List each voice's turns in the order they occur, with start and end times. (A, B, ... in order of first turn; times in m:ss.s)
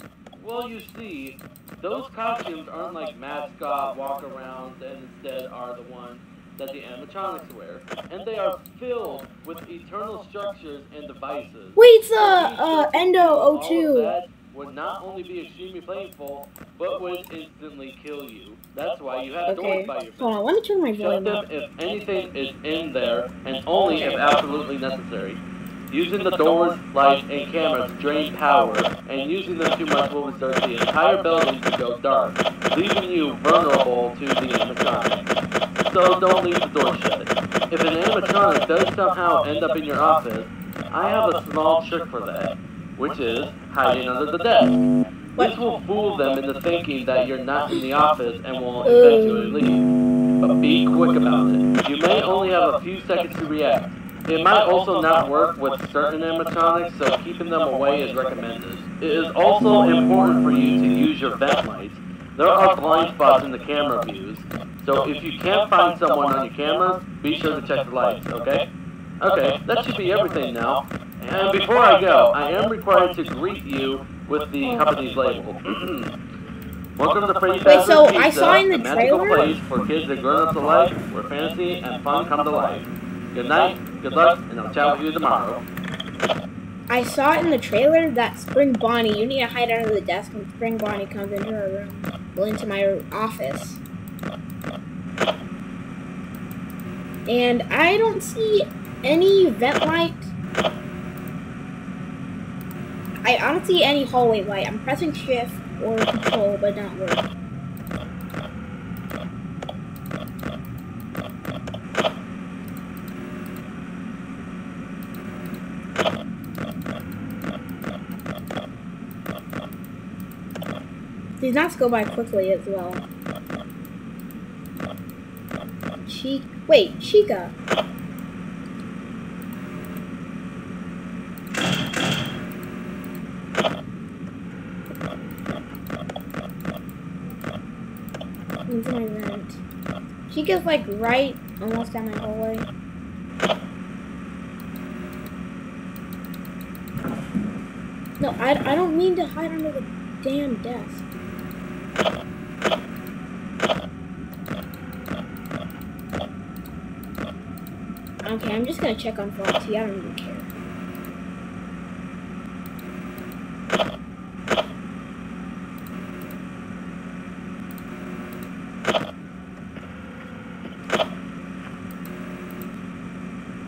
0:00.3-0:20.4 A
0:11.8-0:14.2 B
0:19.5-0:21.4 B
0:20.9-1:08.7 A
0:23.9-0:24.2 B
0:48.8-0:49.7 B
1:09.2-1:16.2 A
1:14.6-1:14.9 B
1:17.0-1:25.6 A
1:17.6-1:19.5 B
1:26.9-1:33.8 B
1:37.3-1:40.3 B
1:43.2-1:47.3 B
2:01.4-2:03.1 B
2:06.0-2:07.5 B
2:15.1-2:15.6 B
2:18.7-2:19.6 B
2:20.3-2:22.7 B
2:28.2-2:31.0 B
2:38.2-2:40.5 B